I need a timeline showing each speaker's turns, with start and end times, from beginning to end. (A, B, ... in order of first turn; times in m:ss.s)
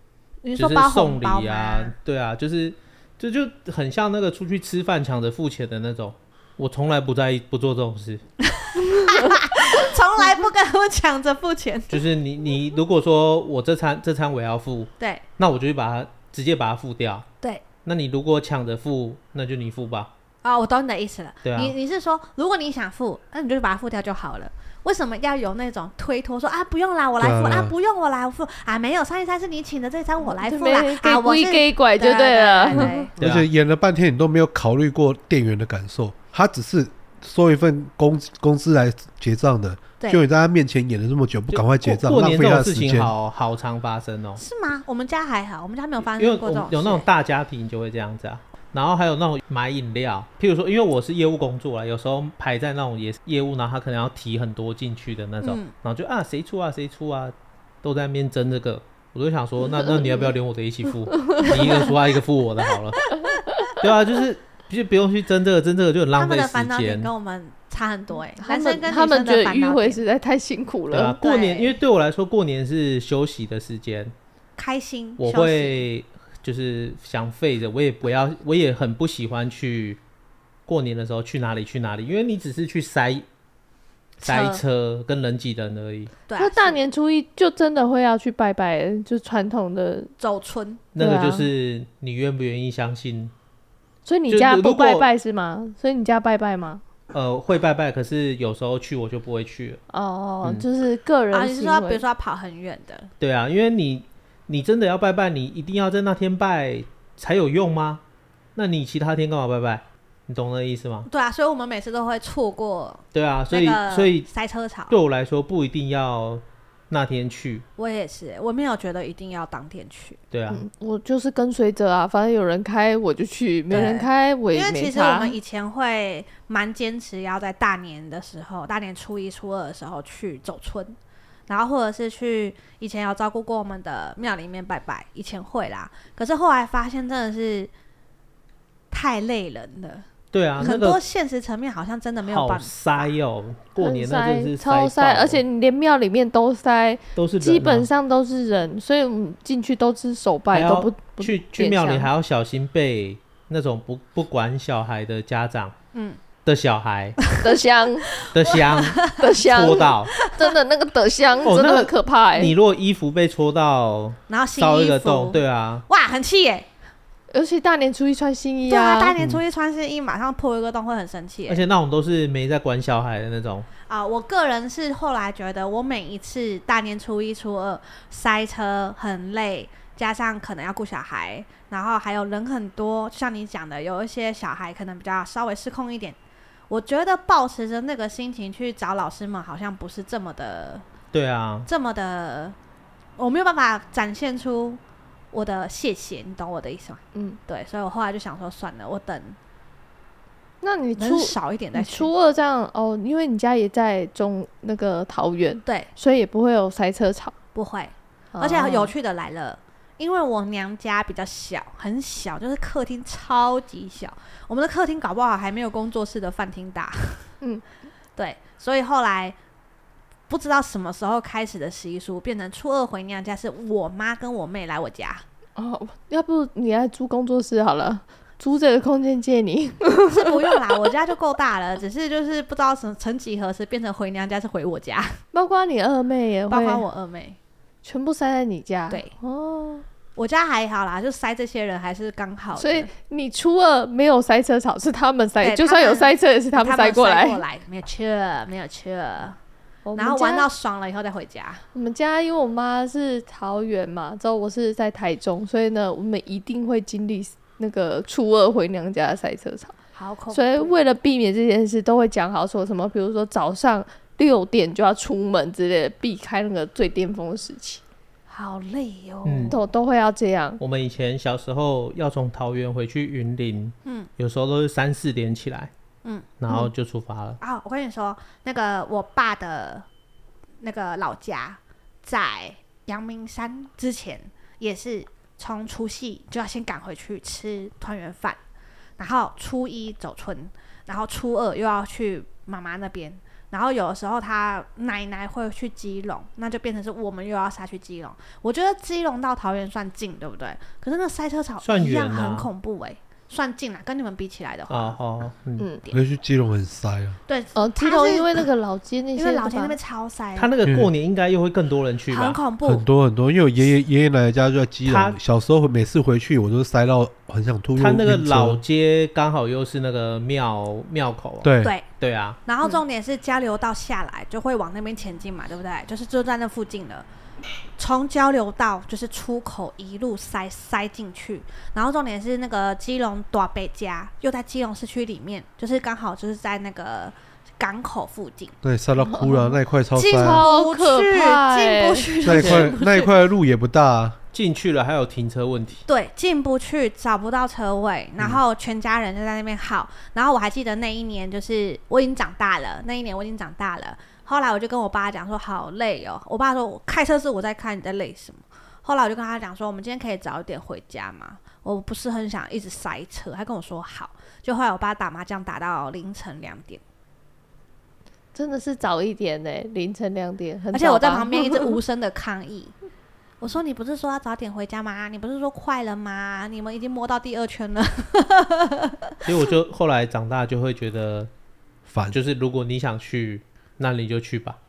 0:00.4-0:01.9 A
0:00.6-0:08.2 B
0:08.8-0:12.0 A
0:11.9-0:17.3 B
0:17.8-0:20.1 B
0:20.4-0:33.1 A
0:21.4-0:21.8 B
0:27.2-0:27.7 C
0:30.2-0:33.1 D
0:33.2-0:43.1 C
0:33.2-0:33.5 B
0:41.5-0:44.4 B
0:44.4-0:47.0 A
0:46.2-1:03.1 B
0:55.4-0:55.7 A
1:03.7-1:07.1 B
1:06.1-1:10.0 A
1:08.4-1:11.2 D
1:10.9-1:14.1 B
1:11.2-1:11.8 A
1:14.6-1:15.8 A
1:15.2-1:20.0 B
1:20.7-1:23.2 B
1:24.2-1:26.2 B
1:24.2-1:24.6 A
1:26.3-1:26.8 A
1:26.4-1:30.1 D
1:30.2-1:30.8 A
1:30.9-1:33.3 B
1:31.0-1:31.5 D
1:34.0-1:36.8 D
1:34.3-1:35.1 B
1:37.1-1:39.8 B
1:39.9-1:42.0 D
1:41.3-1:43.1 A
1:43.2-1:48.0 B
1:48.6-1:51.1 B
1:51.1-1:55.0 A
1:53.1-1:54.3 B
1:54.9-1:57.6 B
1:57.8-2:00.2 A
2:00.3-2:00.6 B
2:00.5-2:05.4 D
2:03.7-2:04.0 B
2:04.5-2:11.0 A
2:11.5-2:17.7 A
2:18.9-2:20.1 A
2:20.3-2:21.0 B
2:20.6-2:23.1 A
2:22.2-2:25.4 B
2:23.8-2:32.1 D
2:27.2-2:27.9 B
2:30.5-2:35.8 B
2:35.9-2:36.2 A
2:36.4-2:37.3 B
2:37.4-2:38.1 D
2:38.3-2:40.3 B
2:38.5-2:39.3 A
2:39.2-2:42.5 D
2:41.4-2:45.8 B
2:44.3-2:46.7 A
2:47.3-2:49.1 D
2:48.7-2:51.6 A
2:51.5-2:53.7 B
2:53.9-3:06.2 A
3:06.7-3:10.8 A
3:11.1-3:11.7 B
3:11.7-3:12.6 A
3:13.2-3:14.8 A
3:15.3-3:19.4 A
3:17.1-3:17.4 D
3:20.6-3:27.3 D
3:21.0-3:22.1 A
3:25.6-3:25.9 A
3:27.6-3:37.3 A
3:28.3-3:28.9 D
3:38.2-3:39.4 A
3:40.3-3:45.2 A
3:45.6-3:50.5 D
3:50.1-3:55.2 A
3:55.3-3:56.8 D
3:56.5-3:57.4 A
3:57.8-3:59.8 D
4:00.2-4:02.9 A
4:02.6-4:07.4 D
4:05.4-4:09.4 A
4:09.9-4:10.5 D
4:10.0-4:11.6 A
4:11.7-4:19.8 D
4:20.0-4:20.7 A
4:20.3-4:27.8 D
4:28.3-4:29.6 A
4:29.2-4:29.6 B
4:29.5-4:30.6 D
4:30.6-4:35.7 B
4:36.4-4:37.4 B
4:37.4-4:39.9 A
4:40.6-4:48.4 A
4:49.0-5:05.0 A
5:01.6-5:02.5 B
5:04.7-5:05.7 B
5:05.9-5:07.2 C
5:07.3-5:08.4 A
5:07.6-5:09.8 D
5:09.2-5:10.5 A
5:10.4-5:12.4 B
5:10.6-5:10.9 C
5:12.1-5:12.8 A
5:12.6-5:18.6 C
5:14.8-5:15.2 B
5:17.8-5:22.4 B
5:21.4-5:21.8 C
5:21.6-5:21.9 A
5:22.5-5:27.1 A
5:27.8-5:38.5 A
5:38.6-5:40.4 C
5:39.0-5:39.6 D
5:40.0-5:43.2 A
5:40.1-5:42.1 D
5:42.2-5:44.2 C
5:42.3-5:42.8 B
5:44.3-5:45.8 B
5:45.9-6:06.8 A
6:08.4-6:11.8 D
6:10.7-6:12.7 A
6:13.4-6:19.1 A
6:19.2-6:21.3 B
6:21.9-6:22.2 C
6:22.1-6:24.6 B